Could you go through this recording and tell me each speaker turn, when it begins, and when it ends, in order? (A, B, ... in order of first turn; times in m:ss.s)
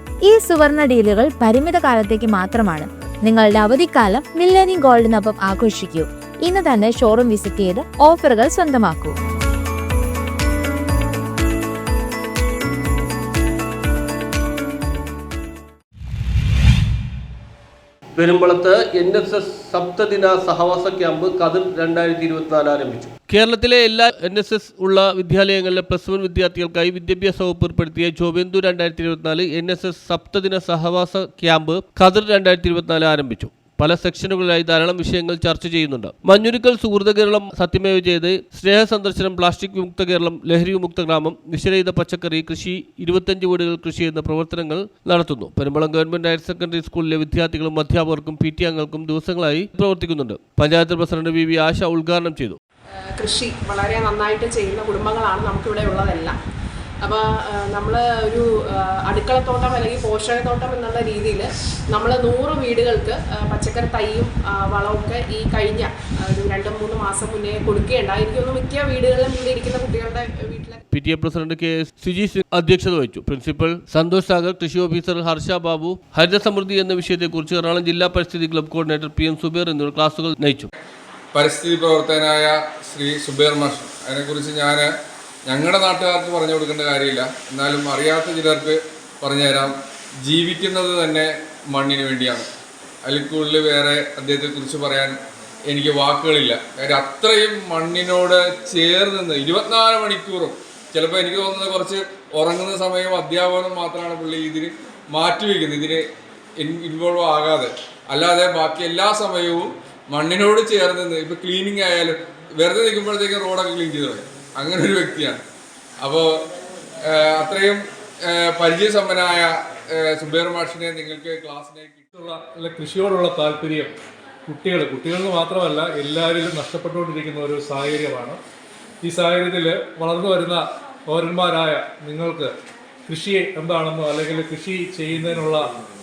0:00.2-0:09.2 A
0:18.2-0:52.6 B
0:53.2-0:56.4 C
0:57.0-1:10.8 C
1:10.9-1:20.7 B
1:21.3-1:24.9 D
1:25.5-1:29.7 D
1:30.2-1:32.5 D
1:33.0-1:35.2 D
1:35.7-1:46.0 D
1:46.6-1:55.4 D
1:56.0-1:56.3 D
1:57.0-2:02.0 D
2:02.1-2:03.9 E
2:04.5-2:08.4 E
2:09.0-2:12.5 E
2:13.1-2:15.7 E